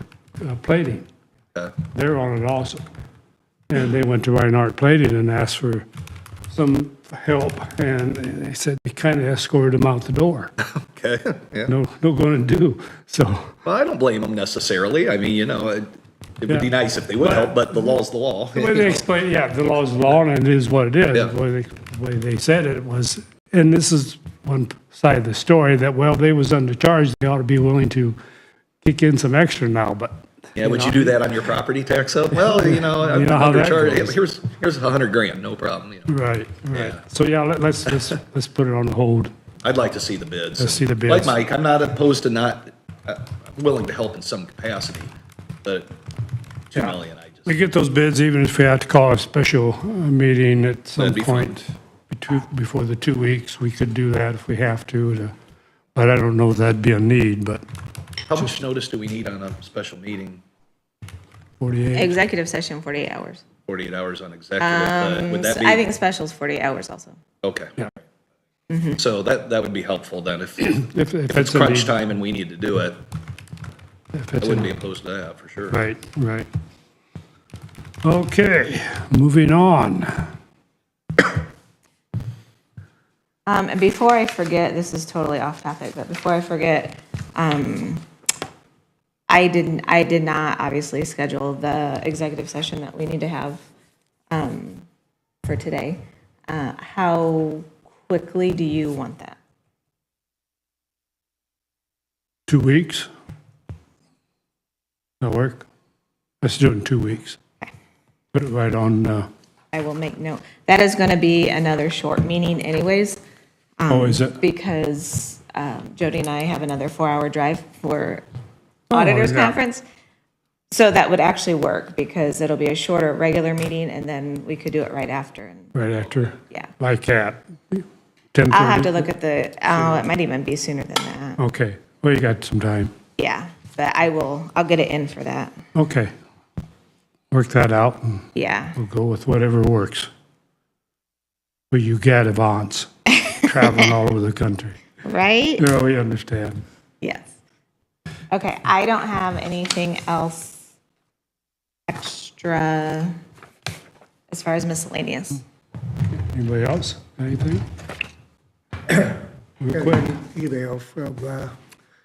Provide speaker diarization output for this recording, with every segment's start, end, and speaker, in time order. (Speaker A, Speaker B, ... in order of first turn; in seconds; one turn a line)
Speaker A: 0.4-1.1
Speaker A: 1.9-2.8
Speaker A: 3.7-5.9
Speaker A: 6.5-10.5
Speaker B: 10.7-11.7
Speaker A: 11.7-13.6
Speaker B: 13.7-15.9
Speaker B: 16.4-19.1
Speaker A: 16.5-17.6
Speaker A: 18.6-28.2
Speaker A: 28.8-31.2
Speaker B: 30.6-36.1
Speaker A: 32.4-34.2
Speaker A: 36.1-39.3
Speaker B: 36.7-37.0
Speaker B: 39.6-45.1
Speaker A: 40.6-41.4
Speaker B: 45.6-45.9
Speaker B: 46.7-47.6
Speaker A: 47.5-55.3
Speaker B: 51.0-51.6
Speaker A: 56.0-57.6
Speaker B: 58.3-60.4
Speaker A: 61.6-62.1
Speaker C: 61.9-63.4
Speaker B: 63.7-65.9
Speaker C: 64.6-67.2
Speaker B: 67.4-67.7
Speaker C: 68.7-69.0
Speaker B: 69.0-73.0
Speaker A: 70.7-72.0
Speaker A: 74.1-74.7
Speaker B: 74.4-75.8
Speaker A: 75.7-76.5
Speaker A: 78.0-80.3
Speaker C: 83.5-88.0
Speaker C: 89.3-93.6
Speaker C: 94.3-94.8
Speaker C: 95.5-99.4
Speaker A: 102.5-103.1
Speaker A: 105.2-105.7
Speaker A: 106.4-107.4
Speaker A: 108.3-109.3
Speaker C: 109.7-113.2
Speaker C: 113.8-118.2
Speaker A: 113.9-114.4
Speaker A: 118.9-119.6
Speaker C: 118.9-119.8
Speaker C: 120.7-126.7
Speaker A: 125.7-129.1
Speaker C: 128.5-131.4
Speaker A: 131.4-133.0
Speaker C: 133.2-135.6
Speaker A: 135.8-136.1
Speaker A: 137.3-138.2
Speaker C: 138.3-138.8
Speaker A: 138.8-140.1
Speaker A: 141.7-144.8
Speaker C: 143.2-143.7
Speaker C: 145.0-145.7
Speaker A: 145.6-146.6
Speaker C: 147.0-147.3
Speaker C: 148.3-150.6
Speaker C: 151.9-153.1
Speaker C: 154.3-155.4
Speaker A: 156.1-157.7
Speaker D: 158.9-161.5
Speaker A: 159.6-160.1